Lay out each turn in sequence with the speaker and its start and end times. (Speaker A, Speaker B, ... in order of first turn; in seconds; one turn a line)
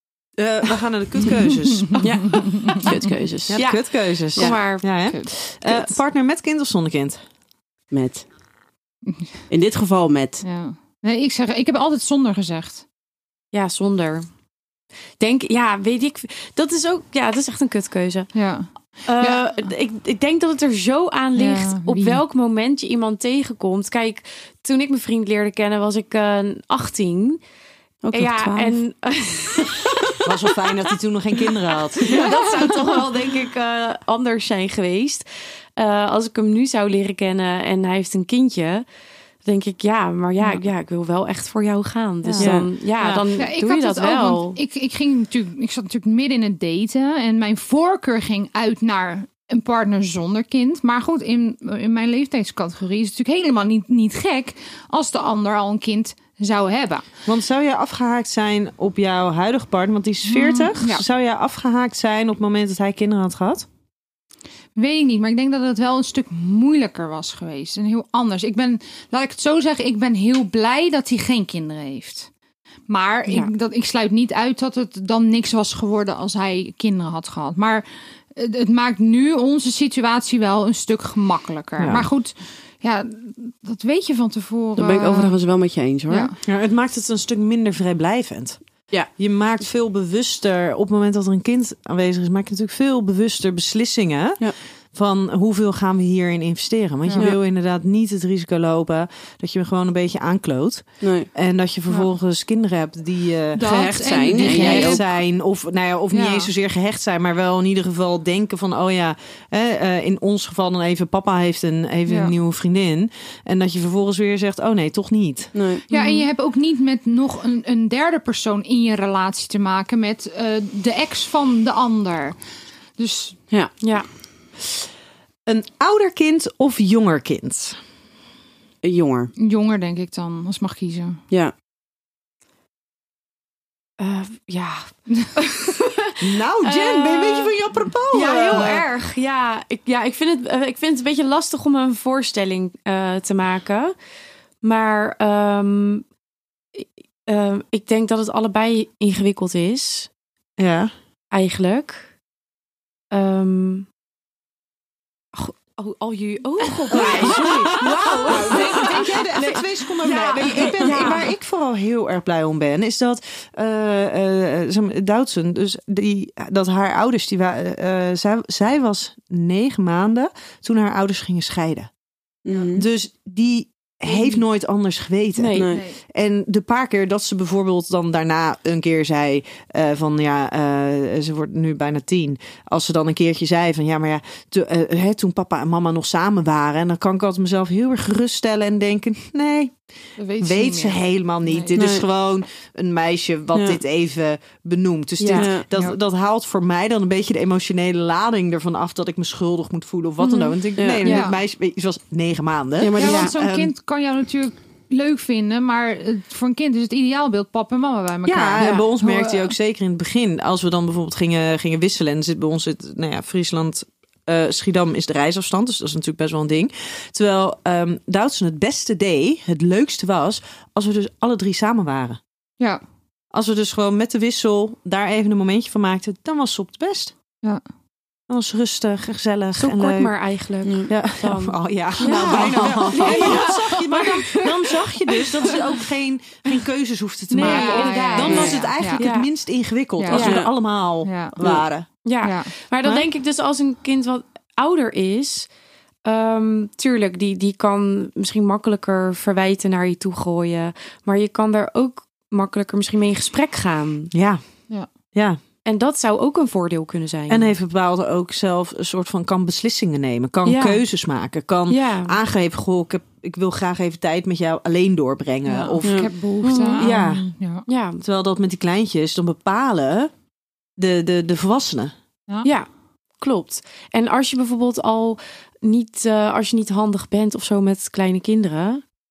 Speaker A: 0.4-2.0
Speaker B: 2.0-3.7
Speaker A: 3.5-7.2
Speaker C: 3.5-4.9
Speaker B: 7.9-8.2
Speaker B: 9.5-10.4
Speaker D: 10.4-12.8
Speaker C: 13.5-14.3
Speaker C: 15.2-18.3
Speaker D: 18.3-19.5
Speaker C: 19.1-27.4
Speaker D: 21.4-22.2
Speaker B: 28.0-28.8
Speaker C: 28.1-30.2
Speaker A: 30.2-32.3
Speaker C: 32.0-38.9
Speaker C: 39.4-44.6
Speaker A: 42.2-43.3
Speaker B: 42.4-42.7
Speaker D: 43.4-57.1
Speaker A: 57.3-63.7
Speaker D: 60.3-61.0
Speaker D: 64.8-72.3
Speaker D: 72.9-85.4
Speaker A: 81.8-82.1
Speaker B: 84.8-86.3
Speaker D: 86.1-86.3
Speaker A: 86.4-88.6
Speaker A: 89.2-115.5
Speaker B: 101.0-101.3
Speaker D: 103.5-105.1
Speaker B: 103.6-105.0
Speaker D: 106.1-106.5
Speaker D: 112.1-112.3
Speaker B: 115.5-115.8
Speaker D: 115.9-122.4
Speaker C: 115.9-116.3
Speaker D: 123.0-123.4
Speaker C: 123.8-124.1
Speaker A: 125.5-127.8
Speaker B: 128.8-129.3
Speaker D: 129.4-131.2
Speaker C: 134.0-137.6
Speaker A: 136.2-138.8
Speaker C: 138.1-143.9
Speaker C: 144.6-146.1
Speaker C: 146.8-150.1
Speaker A: 150.6-150.9
Speaker C: 151.3-152.1
Speaker C: 153.1-153.9
Speaker C: 155.3-161.3
Speaker A: 156.9-171.9
Speaker B: 157.4-157.7
Speaker B: 172.4-172.8
Speaker A: 172.7-189.8
Speaker C: 175.4-175.7
Speaker B: 175.5-175.8
Speaker D: 175.7-176.0
Speaker D: 190.2-191.8
Speaker A: 190.4-203.7
Speaker B: 191.8-192.1
Speaker C: 195.2-195.5
Speaker B: 195.3-195.7
Speaker C: 200.2-200.5
Speaker B: 200.8-201.1
Speaker D: 201.0-201.4
Speaker B: 202.8-203.3
Speaker D: 203.0-209.5
Speaker A: 208.3-222.2
Speaker C: 208.6-208.9
Speaker A: 223.3-227.1
Speaker A: 228.3-230.1
Speaker C: 229.6-235.6
Speaker B: 230.6-230.9
Speaker A: 230.9-241.9
Speaker B: 232.3-233.4
Speaker C: 237.3-239.3
Speaker D: 237.4-239.0
Speaker B: 238.2-238.6
Speaker D: 240.0-240.3
Speaker C: 240.1-240.4
Speaker B: 240.1-240.5
Speaker D: 241.0-241.3
Speaker C: 242.1-245.5
Speaker D: 242.2-242.5
Speaker C: 246.1-254.1
Speaker A: 254.1-254.4
Speaker A: 255.1-255.4
Speaker C: 255.7-257.6
Speaker A: 257.3-266.1
Speaker C: 260.4-260.8
Speaker C: 261.7-262.2
Speaker D: 265.5-267.7
Speaker B: 265.8-266.1
Speaker C: 266.4-267.0
Speaker A: 266.8-267.3
Speaker C: 267.7-268.0
Speaker A: 268.0-270.1
Speaker A: 270.8-271.9
Speaker C: 273.2-278.8